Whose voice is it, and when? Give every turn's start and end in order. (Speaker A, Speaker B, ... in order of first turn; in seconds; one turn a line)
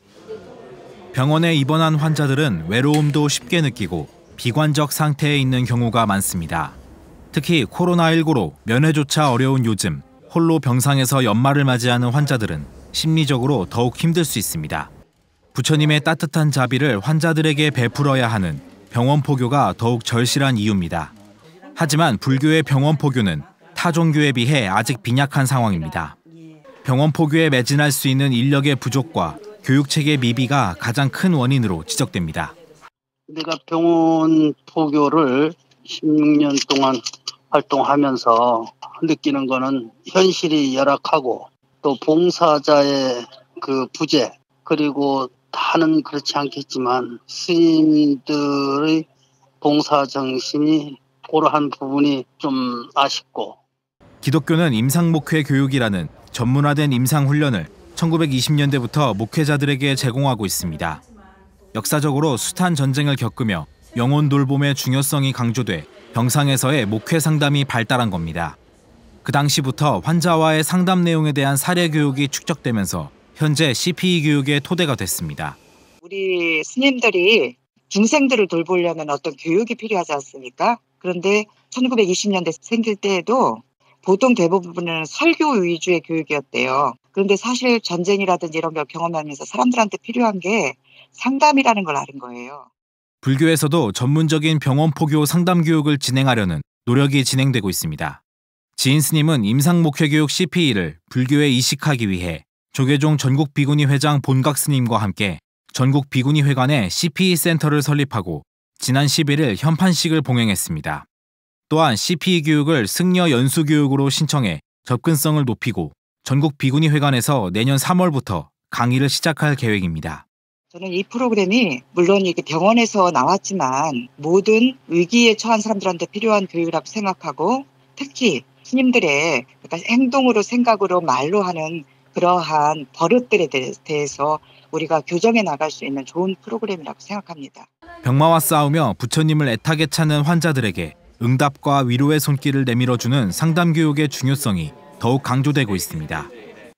Speaker A: 1.1-6.8
Speaker A: 7.3-14.9
Speaker A: 15.6-21.1
Speaker A: 21.8-26.2
Speaker A: 26.9-32.6
Speaker B: 33.3-37.0
Speaker B: 37.5-49.1
Speaker B: 49.6-53.6
Speaker A: 54.2-61.0
Speaker A: 61.7-68.6
Speaker A: 69.2-75.6
Speaker C: 76.0-92.7
Speaker A: 93.2-98.2
Speaker A: 98.8-111.1
Speaker A: 111.7-120.2
Speaker C: 120.7-137.7
Speaker A: 138.0-146.3